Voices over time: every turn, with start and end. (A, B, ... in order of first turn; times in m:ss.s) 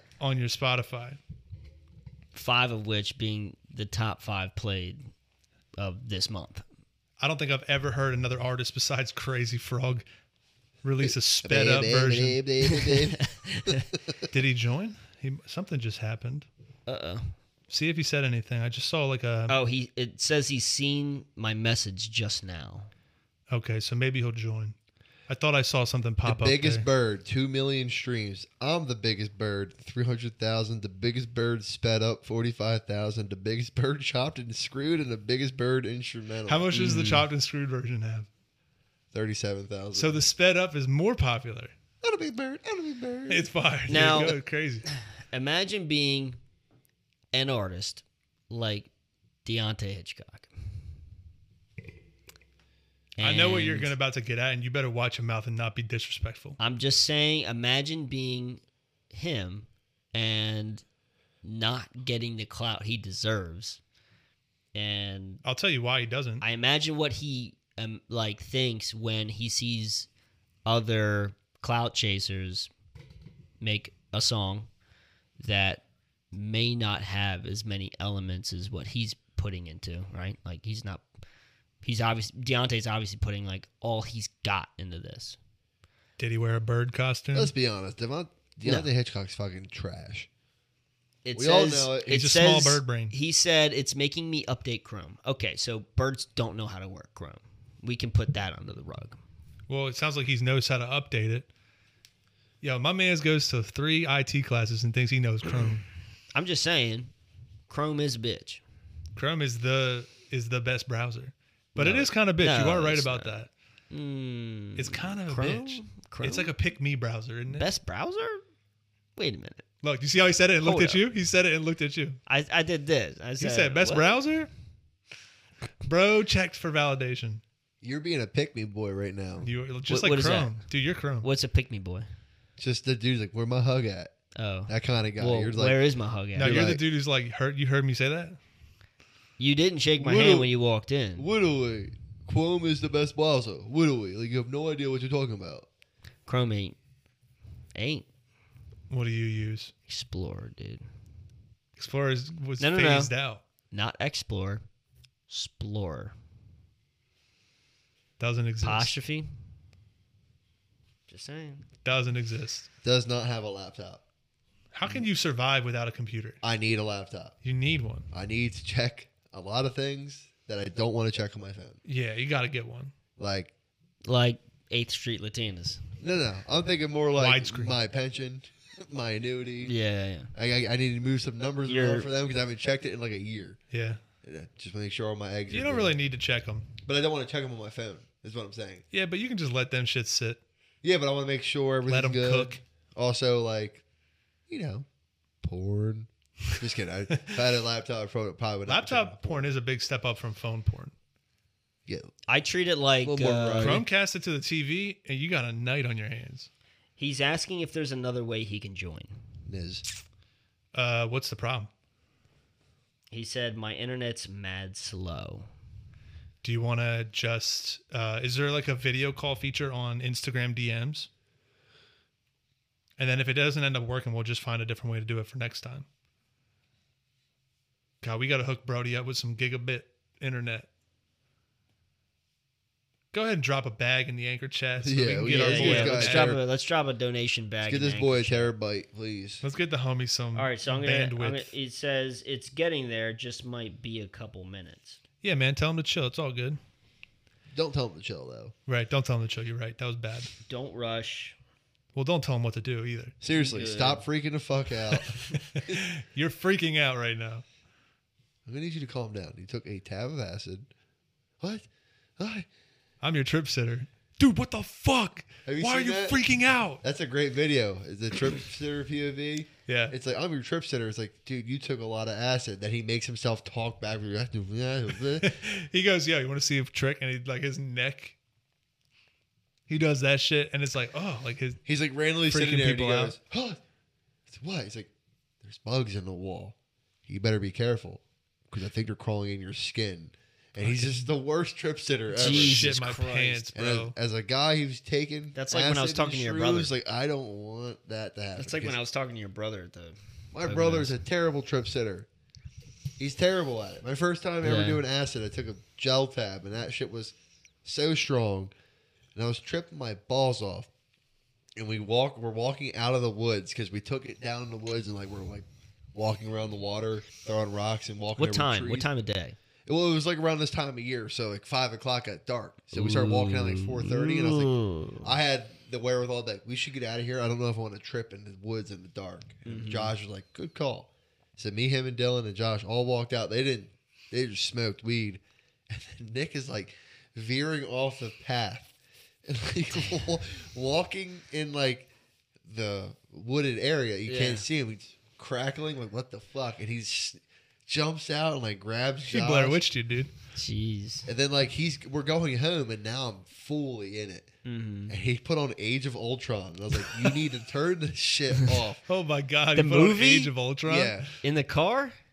0:00.2-0:01.2 A
0:02.3-0:05.0 B
0:05.8-0:06.6 B
0:07.2-0:10.0 A
0:10.8-0:12.4 A
0:11.0-0:14.2 C
0:12.6-0:13.9 B
0:14.3-0:16.4 A
0:16.9-0:17.3 B
0:17.7-0:19.6 A
0:19.5-0:22.9 B
0:23.5-0:24.8 A
0:25.3-0:26.8 A
0:26.2-0:36.7 C
0:36.5-0:38.3 A
0:36.7-0:37.2 B
0:39.1-0:40.2 C
0:39.9-0:41.7 A
0:42.0-0:44.3 C
0:43.3-0:44.9 A
0:43.9-0:46.4 B
0:47.3-0:48.9 B
0:49.4-0:50.5 B
0:53.2-0:53.9 B
0:53.2-0:56.6 A
0:56.6-0:58.6 B
0:59.1-1:00.8 B
1:01.4-1:03.8 B
1:04.7-1:05.4 B
1:05.4-1:06.4 A
1:06.4-1:10.1 B
1:10.6-1:12.7 B
1:13.6-1:14.7 B
1:15.4-1:21.0 B
1:21.8-1:25.4 B
1:26.2-1:27.5 A
1:27.3-1:30.3 C
1:28.6-1:28.9 B
1:31.2-1:39.2 B
1:31.3-1:32.2 C
1:32.0-1:33.1 A
1:39.7-1:41.5 A
1:42.6-1:45.8 A
1:46.3-1:47.1 B
1:47.7-1:48.6 B
1:49.1-1:53.5 A
1:51.7-1:53.4 B
1:53.9-1:56.5 B
1:54.8-1:57.7 A
1:57.5-1:58.4 B
1:59.2-1:59.6 B
1:59.8-2:02.2 A
2:00.6-2:01.0 B
2:02.3-2:04.2 B
2:03.4-2:04.5 A
2:05.8-2:07.4 A
2:07.8-2:09.5 C
2:09.4-2:11.3 A
2:09.9-2:10.6 B
2:11.2-2:12.0 B
2:12.6-2:14.1 C
2:14.4-2:16.7 B
2:14.7-2:15.8 C
2:16.3-2:18.4 A
2:16.4-2:16.8 C
2:19.4-2:21.3 B
2:20.0-2:20.5 C
2:21.2-2:25.7 C
2:26.2-2:26.8 B
2:27.7-2:28.1 B
2:28.9-2:29.7 A
2:29.9-2:30.8 B
2:31.8-2:33.4 A
2:32.6-2:33.1 B
2:33.7-2:34.6 B
2:35.3-2:36.1 B
2:38.2-2:38.9 A
2:38.6-2:39.3 B
2:41.1-2:41.6 B
2:41.8-2:42.7 A
2:42.8-2:44.0 C
2:44.7-2:46.4 A
2:46.4-2:47.3 C
2:47.4-2:48.1 A
2:48.1-2:51.8 C
2:51.8-2:52.9 A
2:53.2-2:53.5 C
2:54.0-2:55.8 B
2:56.0-2:59.7 C
2:57.2-2:57.8 A
2:59.6-3:00.3 B
3:00.3-3:03.6 C
3:01.6-3:02.1 B
3:03.7-3:04.0 A
3:04.2-3:05.9 C
3:05.5-3:06.7 A
3:06.8-3:08.8 C
3:08.9-3:10.4 A
3:10.8-3:13.8 C
3:11.9-3:12.6 A
3:14.5-3:14.8 C
3:15.4-3:19.5 C
3:18.7-3:20.9 A
3:21.8-3:22.1 C
3:22.3-3:23.8 B
3:23.0-3:23.8 C
3:23.6-3:26.5 A
3:27.0-3:29.1 B
3:29.4-3:29.8 C
3:30.7-3:31.7 A
3:33.1-3:35.5 B
3:36.4-3:41.1 A
3:43.0-3:45.8 A
3:48.0-3:50.7 A
3:53.1-3:56.4 A
3:54.8-3:56.4 C
3:55.3-3:58.5 B
3:57.6-3:59.4 C
3:59.4-4:01.5 A
4:00.3-4:05.0 B
4:05.2-4:06.6 A
4:07.5-4:08.5 C
4:08.7-4:10.3 A
4:10.4-4:11.3 B
4:11.9-4:13.2 A
4:13.2-4:15.8 C
4:13.3-4:14.0 B
4:14.9-4:17.4 A
4:18.4-4:20.7 C
4:21.4-4:21.7 C
4:22.2-4:22.5 C
4:23.0-4:26.8 A
4:25.4-4:26.2 C
4:26.8-4:35.3 C
4:29.7-4:29.9 A
4:35.2-4:38.2 A
4:39.7-4:41.6 A
4:41.6-4:43.6 C
4:42.3-4:43.2 A
4:44.3-4:44.9 C
4:45.4-4:46.6 C
4:47.1-4:52.7 C
4:50.6-4:51.1 A
4:52.1-4:53.4 B
4:52.2-4:53.9 A
4:53.5-4:58.8 C
4:55.3-4:56.7 B
4:58.4-5:01.0 B
5:00.3-5:02.1 C
5:03.0-5:07.1 C
5:04.4-5:04.8 B
5:07.6-5:08.5 C
5:09.1-5:10.7 C
5:11.6-5:18.9 C
5:18.2-5:19.4 B
5:19.6-5:38.7 C
5:22.7-5:25.1 B
5:29.4-5:29.9 B
5:39.2-5:41.9 C
5:42.4-5:49.6 C
5:44.0-5:44.4 B
5:49.0-5:50.1 A
5:50.3-5:51.1 B
5:51.0-5:54.3 C
5:54.4-5:54.9 B
5:54.9-5:58.8 C
5:58.9-6:01.1 A
5:59.5-6:00.3 B
6:00.6-6:01.1 C
6:01.2-6:02.0 B